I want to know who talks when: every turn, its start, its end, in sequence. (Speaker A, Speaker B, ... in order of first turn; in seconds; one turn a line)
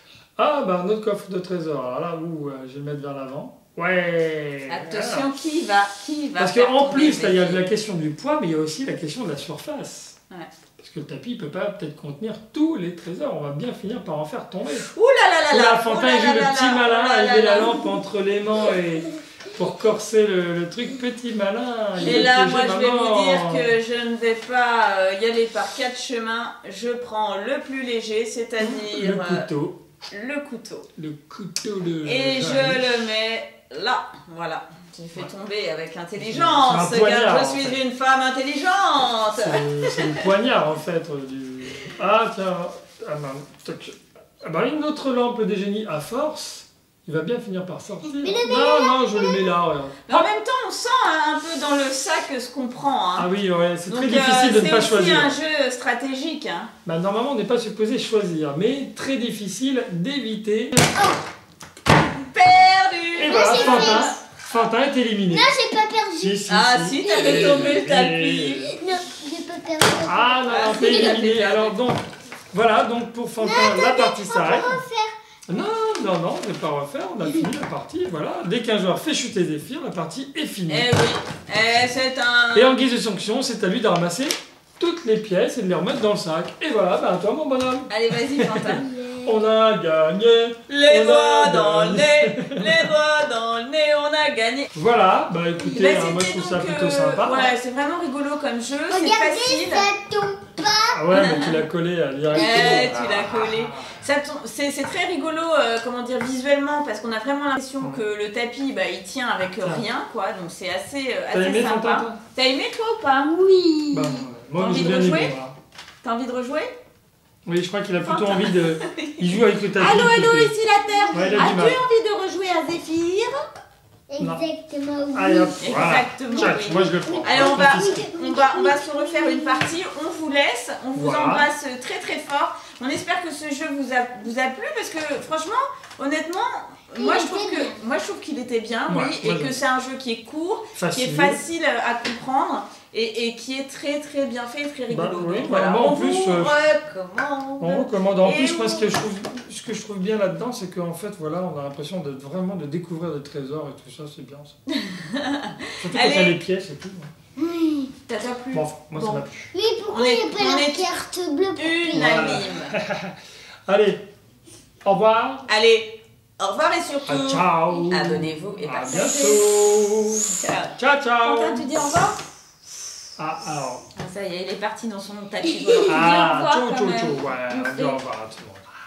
Speaker A: 0.4-5.3
Speaker B: 4.7-7.6
Speaker A: 6.4-10.2
Speaker A: 10.8-14.9
Speaker B: 14.7-17.9
Speaker A: 15.5-23.7
Speaker B: 22.0-29.5
Speaker A: 28.6-29.8
Speaker B: 30.1-30.9
Speaker A: 30.9-33.0
Speaker B: 32.0-40.2
Speaker A: 36.1-37.8
Speaker A: 39.3-50.3
Speaker C: 48.0-49.5
Speaker B: 50.1-53.3
Speaker A: 53.1-55.4
Speaker B: 53.9-56.7
Speaker A: 56.8-60.9
Speaker B: 62.2-64.1
Speaker A: 63.1-65.5
Speaker C: 63.2-64.4
Speaker C: 65.3-67.9
Speaker A: 66.2-68.7
Speaker B: 66.5-68.7
Speaker C: 68.6-71.2
Speaker A: 70.0-74.8
Speaker B: 70.5-71.7
Speaker C: 73.4-75.1
Speaker A: 75.5-80.9
Speaker C: 77.2-77.5
Speaker B: 80.7-82.7
Speaker A: 82.5-92.9
Speaker B: 87.9-88.9
Speaker C: 88.7-89.4
Speaker B: 90.7-94.7
Speaker A: 94.7-97.5
Speaker B: 95.7-99.9
Speaker C: 98.9-101.5
Speaker A: 100.9-104.0
Speaker B: 101.1-101.6
Speaker C: 102.3-102.9
Speaker B: 102.3-115.4
Speaker A: 109.5-109.9
Speaker A: 111.3-112.2
Speaker A: 113.9-115.5
Speaker B: 116.0-116.7
Speaker A: 117.5-120.5
Speaker B: 118.0-123.5
Speaker C: 120.8-121.6
Speaker A: 121.1-121.8
Speaker C: 124.1-129.8
Speaker A: 124.2-124.4
Speaker A: 125.1-128.0
Speaker B: 125.6-149.0
Speaker A: 130.9-131.5
Speaker C: 136.9-137.8
Speaker A: 138.9-139.6
Speaker A: 140.7-141.4
Speaker A: 144.9-146.5
Speaker A: 147.6-154.6
Speaker B: 154.7-156.4
Speaker A: 155.8-157.1
Speaker C: 157.4-157.9
Speaker B: 158.1-159.3
Speaker A: 158.5-159.5
Speaker C: 159.5-162.5
Speaker B: 159.9-161.0
Speaker B: 161.5-162.8
Speaker A: 161.9-163.2
Speaker A: 163.7-164.0
Speaker A: 164.8-165.4
Speaker B: 165.5-169.4
Speaker A: 167.1-171.7
Speaker B: 170.3-172.2
Speaker A: 173.2-173.8
Speaker B: 173.9-178.0
Speaker A: 175.8-178.7